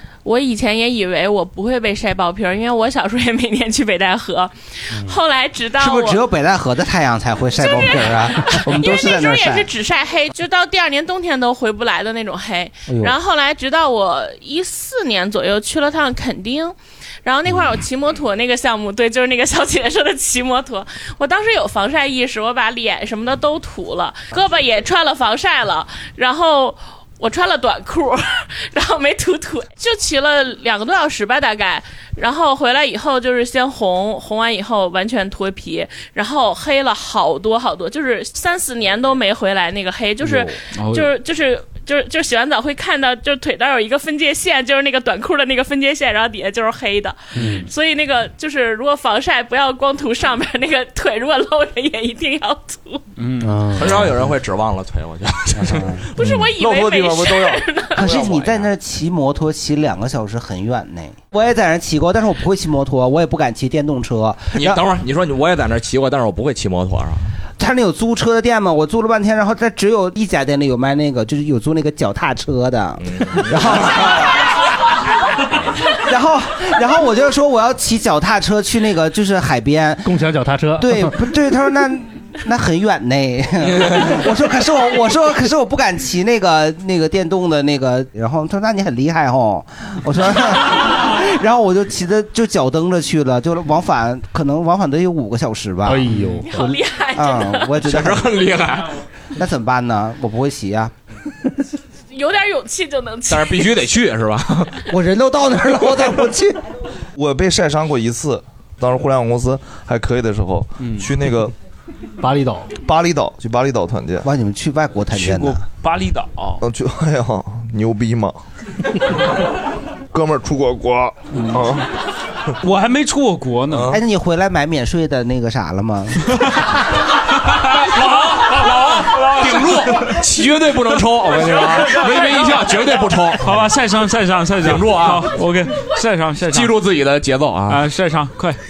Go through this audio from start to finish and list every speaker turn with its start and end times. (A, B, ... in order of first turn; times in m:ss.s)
0:00.2-0:06.2 A
0:05.8-0:09.7 B
0:07.6-0:53.0 A
0:12.9-0:13.2 B
0:40.8-0:41.1 C
0:47.4-0:47.7 D
0:53.2-0:53.6 C
0:53.4-0:54.1 D
0:53.7-0:56.0 E
0:55.6-0:56.0 B
0:56.1-0:58.4 A
0:56.2-0:57.6 F
0:57.9-1:04.8 B
1:04.6-1:07.3 E
1:07.6-1:14.4 B
1:13.1-1:13.5 E
1:16.0-1:20.2 B
1:20.0-1:21.1 D
1:20.8-1:38.3 B
1:35.9-1:36.5 D
1:36.4-1:37.7 A
1:37.8-1:39.0 E
1:39.4-1:40.9 B
1:42.1-1:43.6 A
1:43.3-1:44.7 E
1:44.9-1:46.6 B
1:47.2-1:51.5 F
1:50.8-1:51.1 C
1:52.2-1:52.7 D
1:52.8-1:54.3 F
1:54.2-1:55.6 B
1:55.1-1:56.6 C
1:56.6-1:58.4 F
2:00.1-2:01.8 F
2:02.6-2:03.9 C
2:03.7-2:04.0 E
2:03.9-2:06.2 B
2:07.6-2:10.1 C
2:07.9-2:13.6 E
2:11.8-2:16.8 C
2:14.6-2:15.3 E
2:16.5-2:17.9 E
2:17.7-2:18.6 C